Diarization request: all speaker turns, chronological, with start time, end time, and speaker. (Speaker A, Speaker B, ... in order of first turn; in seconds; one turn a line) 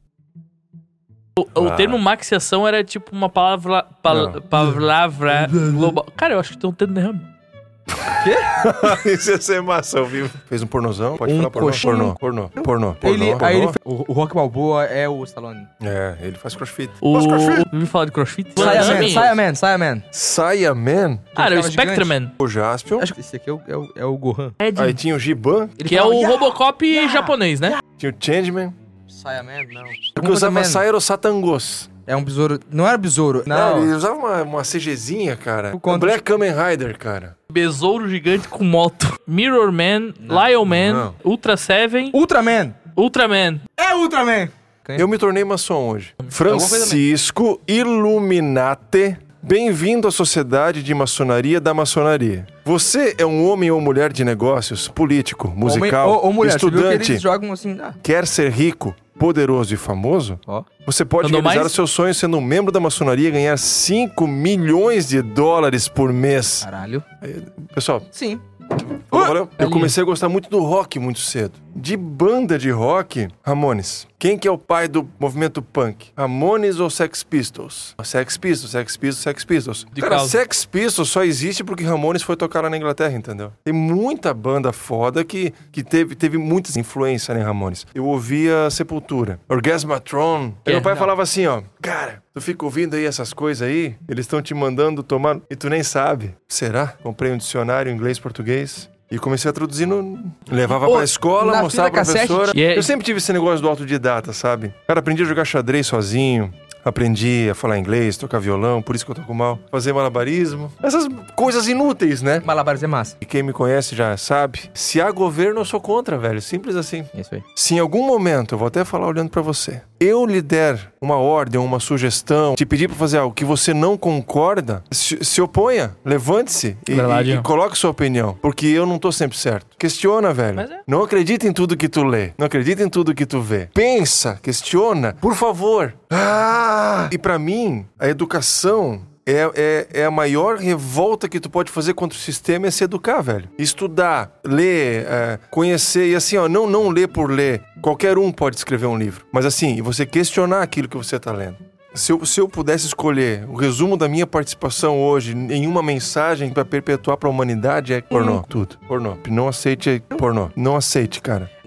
Speaker A: 1.4-7.3
Speaker B: 1.5-2.0
Speaker B: 4.1-4.6
Speaker B: 7.9-13.8
Speaker C: 8.1-8.6
Speaker C: 11.2-15.7
Speaker B: 15.8-17.7
Speaker A: 17.0-19.4
Speaker B: 18.6-19.3
Speaker C: 18.6-20.1
Speaker B: 20.1-21.3
Speaker C: 21.4-22.2
Speaker A: 21.4-22.3
Speaker B: 22.4-23.1
Speaker C: 23.0-24.6
Speaker A: 24.6-25.0
Speaker B: 24.7-25.8
Speaker C: 25.8-27.8
Speaker A: 25.9-27.8
Speaker B: 28.0-28.8
Speaker C: 29.1-30.8
Speaker B: 30.1-31.9
Speaker C: 32.1-33.9
Speaker B: 33.5-37.4
Speaker C: 35.7-36.2
Speaker A: 37.5-42.2
Speaker C: 40.2-40.5
Speaker B: 40.6-41.2
Speaker C: 42.1-42.8
Speaker A: 43.0-43.6
Speaker C: 43.8-45.1
Speaker B: 45.0-57.2
Speaker C: 46.5-47.0
Speaker C: 55.6-58.0
Speaker B: 58.0-66.7
Speaker A: 61.2-61.7
Speaker C: 66.6-67.1
Speaker B: 67.2-68.1
Speaker C: 68.1-68.4
Speaker B: 68.9-112.5
Speaker C: 69.1-69.4
Speaker A: 69.6-69.9
Speaker A: 80.0-80.4
Speaker C: 90.7-91.1
Speaker C: 100.7-102.6
Speaker A: 102.5-102.9
Speaker C: 112.4-113.2
Speaker B: 113.2-161.5
Speaker C: 117.1-117.5
Speaker A: 126.9-127.5
Speaker A: 130.6-130.8